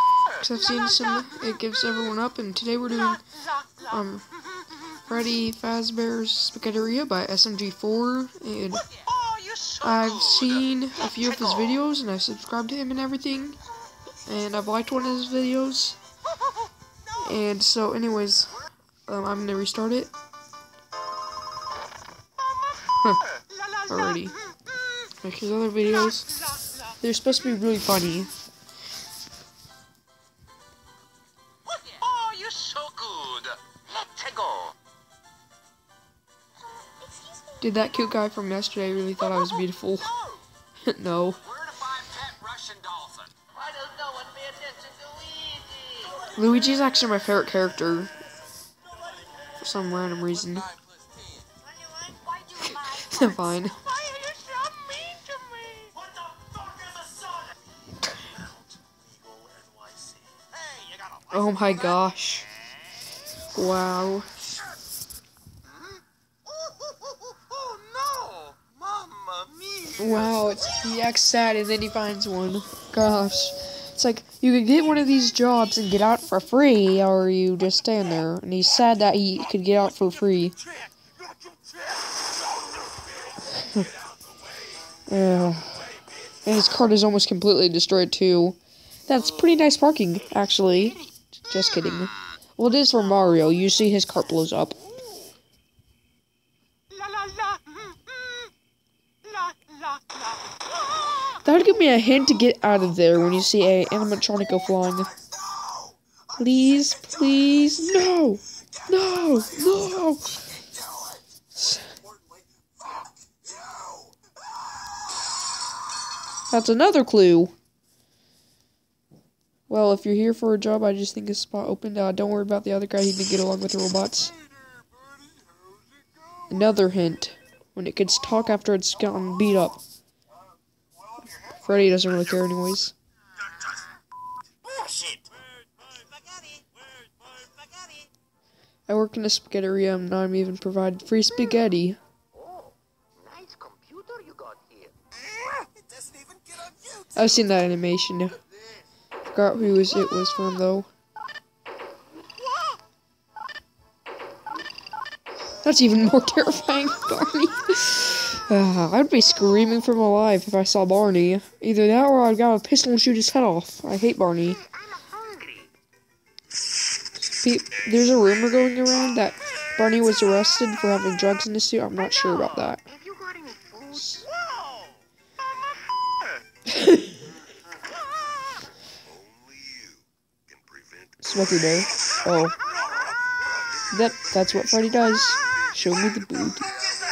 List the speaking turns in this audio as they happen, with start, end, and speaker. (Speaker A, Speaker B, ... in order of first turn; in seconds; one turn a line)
Speaker A: 0.4-3.2
Speaker A: 3.8-4.2
Speaker A: 5.0-8.8
Speaker B: 9.3-9.7
Speaker A: 9.8-13.6
Speaker A: 14.3-16.0
Speaker A: 17.2-20.1
Speaker A: 23.9-24.4
Speaker A: 25.2-26.3
Speaker A: 27.0-28.3
Speaker B: 31.8-34.8
Speaker A: 37.6-40.1
Speaker A: 40.8-41.5
Speaker B: 41.7-46.2
Speaker A: 46.3-48.1
Speaker A: 49.6-50.7
Speaker A: 52.6-53.8
Speaker B: 54.1-56.0
Speaker B: 59.6-60.1
Speaker A: 61.3-62.5
Speaker A: 63.5-64.3
Speaker B: 67.9-69.8
Speaker A: 69.9-80.6
Speaker A: 83.5-83.9
Speaker A: 85.1-85.9
Speaker A: 86.5-94.8
Speaker A: 101.4-105.1
Speaker A: 106.3-110.4
Speaker A: 111.5-112.0
Speaker A: 116.5-117.5
Speaker A: 119.7-124.4
Speaker A: 126.5-129.8
Speaker A: 131.4-132.9
Speaker B: 134.9-135.2
Speaker A: 138.9-142.0
Speaker B: 142.4-144.9
Speaker A: 147.1-148.4
Speaker A: 149.2-150.9
Speaker A: 155.6-164.6
Speaker B: 164.9-165.7
Speaker A: 167.4-172.9
Speaker B: 173.0-173.9
Speaker A: 173.9-174.3
Speaker A: 176.7-177.2
Speaker A: 181.2-182.6
Speaker A: 183.9-186.7